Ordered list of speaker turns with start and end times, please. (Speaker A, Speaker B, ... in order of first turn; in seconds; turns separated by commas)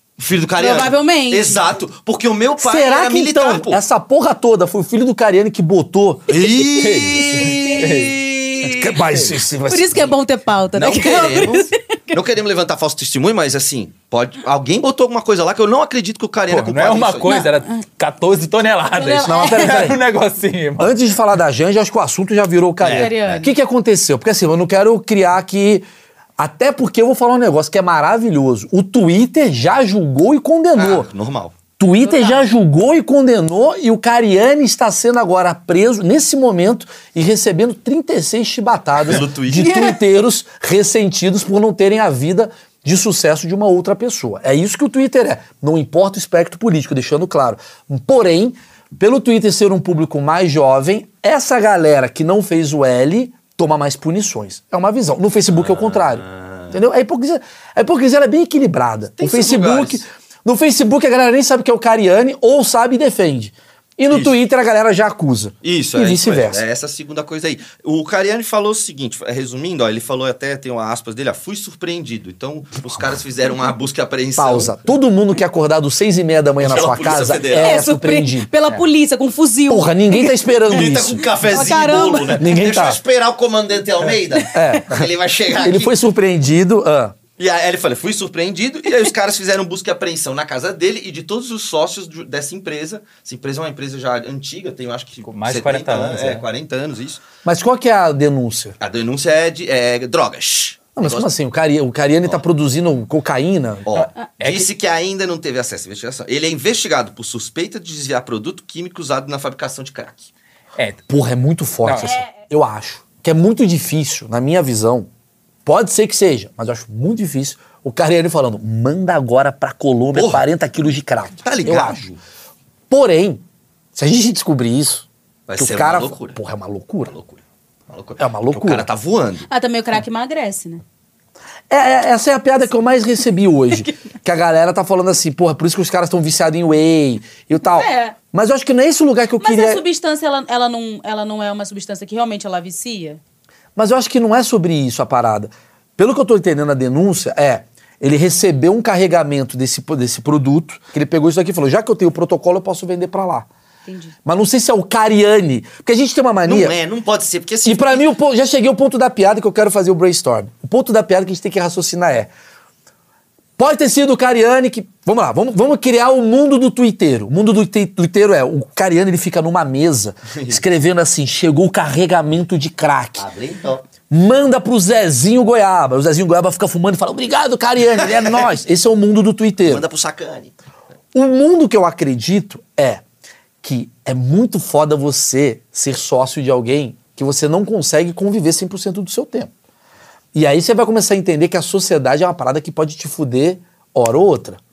Speaker A: 0.2-3.8, Speaker B: 0.6-1.6, Speaker C: 2.6-7.0, Speaker A: 6.3-9.0, Speaker D: 6.8-8.2, Speaker B: 7.4-7.8, Speaker C: 8.7-10.2, Speaker B: 9.7-11.8, Speaker A: 10.8-17.4, Speaker D: 10.9-11.5, Speaker D: 16.5-20.9, Speaker B: 17.3-17.8, Speaker B: 18.9-19.9, Speaker C: 19.3-20.0, Speaker C: 20.8-25.9, Speaker A: 22.8-23.4, Speaker B: 23.0-23.5, Speaker C: 26.4-31.1, Speaker A: 30.8-31.6, Speaker C: 31.8-66.6, Speaker B: 32.0-32.5, Speaker A: 39.0-39.8, Speaker B: 39.6-39.9, Speaker A: 55.5-56.8, Speaker A: 59.2-60.0, Speaker A: 64.1-64.3, Speaker A: 65.6-74.7, Speaker C: 74.4-78.5, Speaker A: 76.6-77.9, Speaker B: 77.6-80.4, Speaker C: 79.7-81.3, Speaker A: 80.7-86.0, Speaker B: 81.4-82.4, Speaker C: 82.4-83.0, Speaker C: 84.5-87.2, Speaker A: 87.4-97.2, Speaker D: 95.3-96.5, Speaker C: 97.4-98.8, Speaker A: 98.8-101.3, Speaker C: 101.0-103.8, Speaker A: 103.9-110.3, Speaker D: 103.9-104.7, Speaker D: 110.8-111.0, Speaker C: 111.1-115.1, Speaker D: 111.8-112.1, Speaker C: 115.7-122.0, Speaker A: 120.1-120.5, Speaker A: 121.4-122.2, Speaker C: 122.9-123.4, Speaker C: 124.0-127.1, Speaker A: 125.5-126.4, Speaker A: 127.1-129.5, Speaker C: 128.2-128.9, Speaker B: 129.5-130.8, Speaker C: 131.7-139.8, Speaker B: 137.7-138.2, Speaker B: 139.4-143.2, Speaker C: 143.8-153.5, Speaker B: 153.9-154.1, Speaker C: 154.2-156.7, Speaker A: 156.4-158.1, Speaker C: 157.7-162.3, Speaker C: 163.6-173.3, Speaker A: 170.3-170.6, Speaker A: 173.2-173.8, Speaker C: 174.1-179.8, Speaker A: 179.6-180.5, Speaker C: 181.1-183.0, Speaker C: 183.6-189.5, Speaker C: 190.3-194.6